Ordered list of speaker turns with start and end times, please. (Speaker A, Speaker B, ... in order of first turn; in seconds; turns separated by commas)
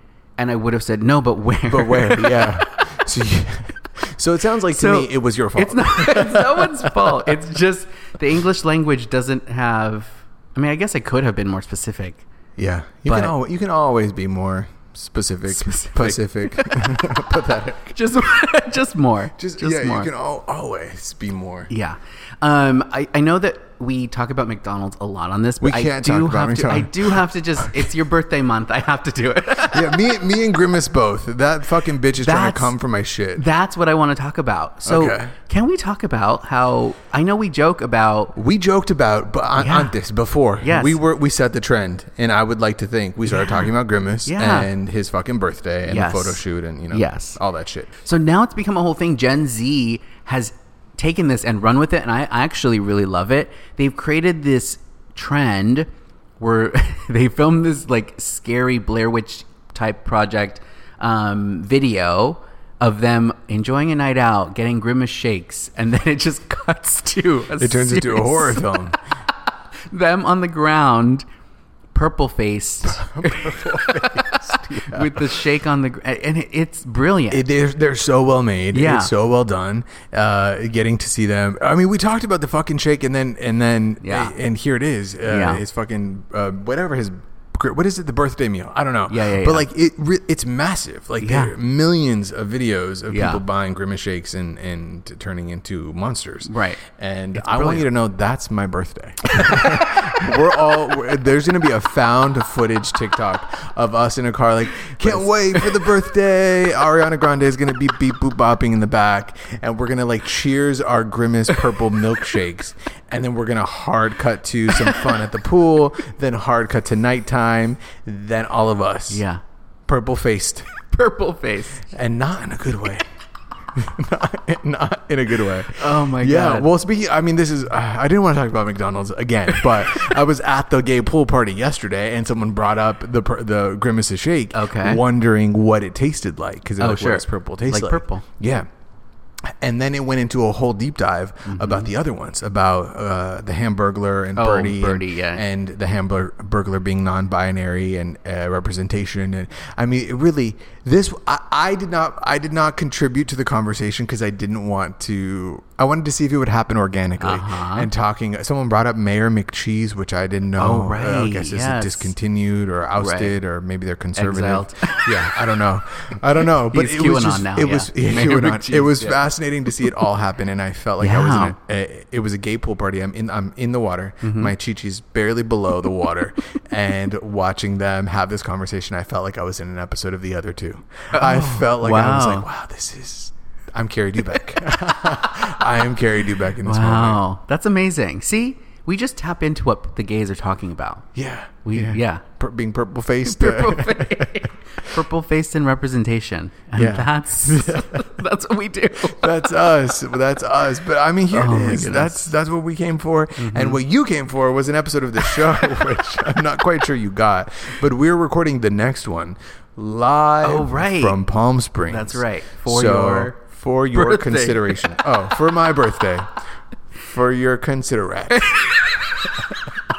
Speaker A: 0.4-2.7, Speaker B: 1.7-7.4, Speaker A: 4.7-12.2, Speaker B: 12.6-18.0, Speaker A: 13.1-13.3, Speaker A: 15.5-16.9, Speaker A: 17.9-20.1, Speaker B: 19.4-21.7, Speaker A: 21.7-30.2, Speaker B: 25.6-27.9, Speaker B: 29.6-33.4, Speaker A: 32.2-32.8, Speaker A: 33.3-38.4, Speaker B: 34.9-35.3, Speaker B: 38.4-47.9, Speaker A: 39.6-40.0, Speaker A: 40.6-41.0, Speaker A: 43.3-43.7, Speaker A: 44.3-44.7, Speaker A: 45.9-47.4, Speaker A: 48.0-55.9, Speaker A: 56.4-68.9, Speaker B: 67.6-69.0, Speaker A: 69.9-71.2, Speaker A: 71.9-77.5, Speaker B: 72.8-75.4, Speaker B: 77.3-119.2, Speaker A: 78.7-79.1, Speaker A: 84.0-84.3, Speaker A: 85.3-85.6, Speaker A: 89.1-89.7, Speaker A: 91.2-91.5, Speaker A: 93.1-93.4, Speaker A: 96.5-96.8, Speaker A: 97.3-97.9, Speaker A: 99.5-99.9, Speaker A: 105.0-105.8, Speaker A: 119.1-119.4, Speaker B: 119.9-120.7, Speaker A: 120.9-121.9, Speaker B: 121.9-123.1, Speaker B: 123.7-138.7, Speaker A: 125.8-126.7, Speaker A: 134.5-135.0, Speaker A: 136.8-138.2, Speaker B: 139.4-187.2, Speaker A: 141.5-141.9, Speaker A: 144.4-145.4, Speaker A: 157.2-157.9, Speaker A: 160.6-162.1, Speaker A: 163.0-163.3, Speaker A: 164.2-165.1, Speaker A: 166.6-169.2, Speaker A: 171.0-171.6, Speaker A: 174.2-174.5, Speaker A: 181.1-182.5, Speaker A: 186.6-191.1, Speaker B: 191.2-195.0, Speaker A: 191.7-192.2, Speaker A: 193.2-199.4, Speaker B: 196.8-198.2, Speaker B: 199.0-216.3, Speaker A: 201.3-202.3, Speaker A: 203.4-203.8, Speaker A: 210.4-211.2, Speaker A: 211.9-213.4, Speaker A: 213.9-214.9, Speaker B: 217.0-218.5, Speaker A: 218.3-219.6